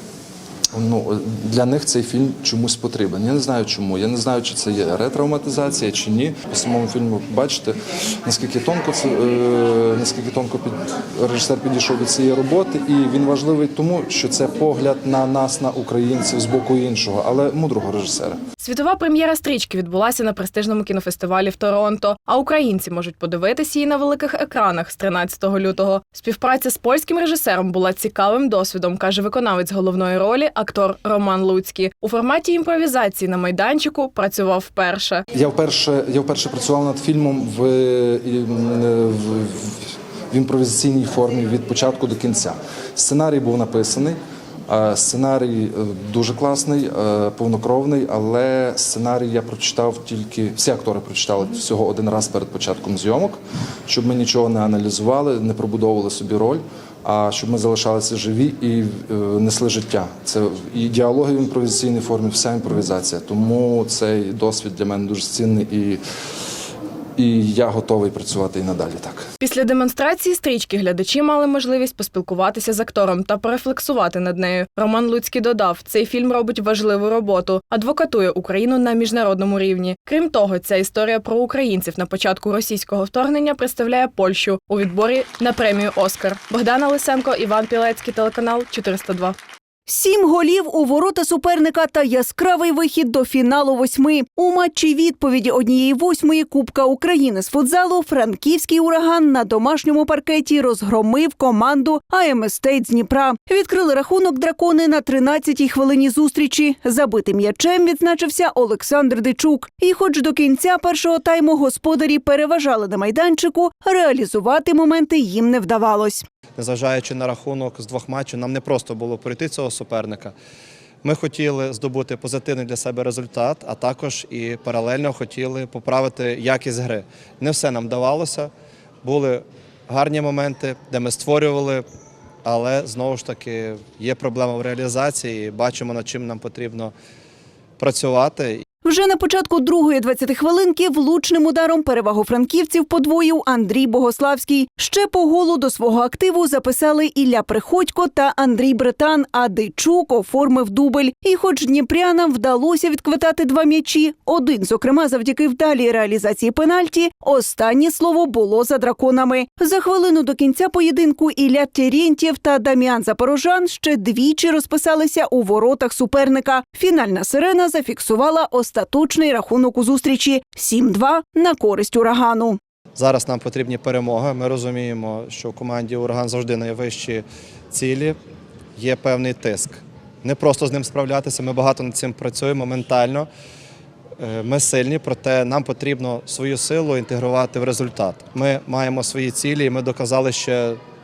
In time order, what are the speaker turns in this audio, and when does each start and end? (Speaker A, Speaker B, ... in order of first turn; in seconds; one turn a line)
Speaker A: 0.7-18.4
Speaker B: 18.6-35.2
Speaker A: 35.3-66.0
Speaker A: 67.2-69.3
Speaker B: 69.4-89.3
Speaker C: 89.9-116.2
Speaker D: 116.6-120.3
Speaker D: 121.0-128.5
Speaker D: 129.0-131.8
Speaker D: 132.4-136.9
Speaker D: 137.8-138.6
Speaker C: 138.8-172.6
Speaker D: 172.9-178.2
Speaker D: 178.8-183.3
Speaker D: 184.2-190.8